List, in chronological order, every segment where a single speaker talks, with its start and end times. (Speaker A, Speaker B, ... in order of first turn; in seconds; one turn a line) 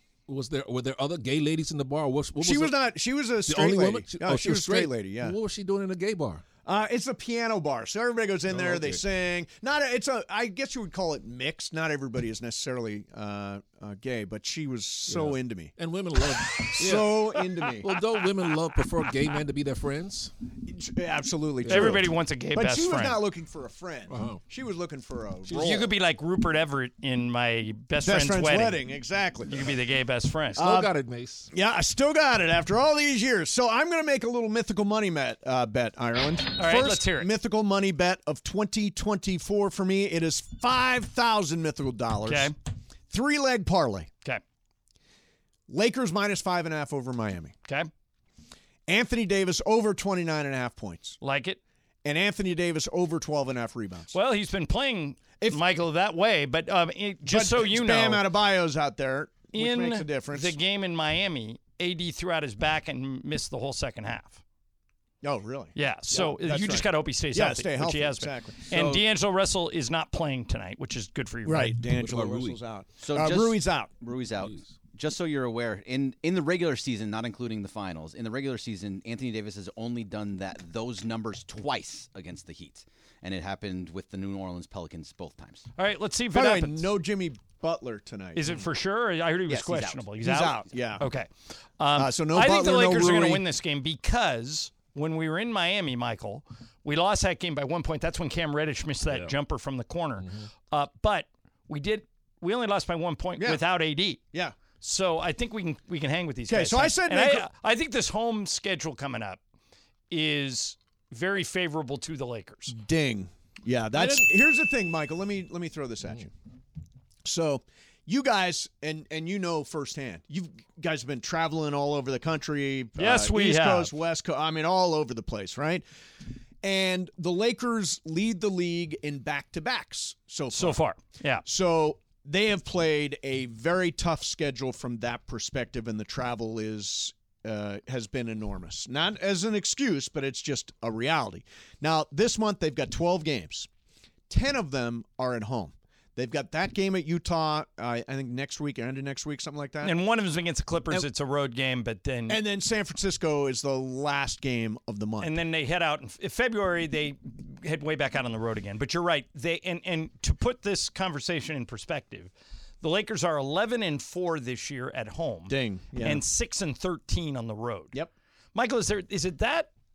Speaker A: 0.3-2.8
Speaker B: 2.4-5.4
Speaker A: 3.5-6.4
Speaker B: 6.6-15.7
Speaker A: 8.5-9.0
Speaker A: 15.1-20.3
Speaker B: 16.5-18.0
Speaker B: 20.6-25.9
Speaker A: 21.6-22.1
Speaker C: 21.7-23.2
Speaker A: 24.1-24.4
Speaker C: 25.5-28.8
Speaker B: 28.0-29.7
Speaker C: 29.5-30.6
Speaker A: 30.6-31.5
Speaker B: 30.6-30.9
Speaker B: 31.5-42.5
Speaker C: 36.6-37.3
Speaker C: 42.2-42.5
Speaker B: 43.1-44.1
Speaker B: 45.7-47.5
Speaker B: 48.9-51.2
Speaker C: 51.2-51.6
Speaker B: 52.0-54.1
Speaker C: 54.1-58.2
Speaker B: 57.2-60.6
Speaker C: 59.5-64.4
Speaker B: 65.2-68.7
Speaker C: 65.7-71.7
Speaker A: 68.7-69.0
Speaker B: 71.4-73.9
Speaker A: 71.9-72.6
Speaker D: 73.0-85.6
Speaker A: 74.3-74.8
Speaker C: 85.8-86.9
Speaker B: 86.3-88.6
Speaker C: 88.3-104.2
Speaker B: 89.5-91.1
Speaker D: 89.7-90.0
Speaker B: 91.9-93.4
Speaker A: 99.0-99.3
Speaker A: 100.2-100.5
Speaker B: 103.4-103.7
Speaker C: 104.8-109.4
Speaker B: 106.5-107.5
Speaker C: 110.1-112.7
Speaker B: 112.7-116.3
Speaker A: 113.9-114.2
Speaker B: 117.2-125.8
Speaker C: 123.0-123.9
Speaker B: 126.6-130.8
Speaker C: 130.5-131.4
Speaker B: 131.4-143.7
Speaker B: 144.3-149.9
Speaker C: 149.8-152.4
Speaker B: 152.3-155.3
Speaker C: 155.2-167.9
Speaker B: 165.5-166.2
Speaker C: 168.5-169.7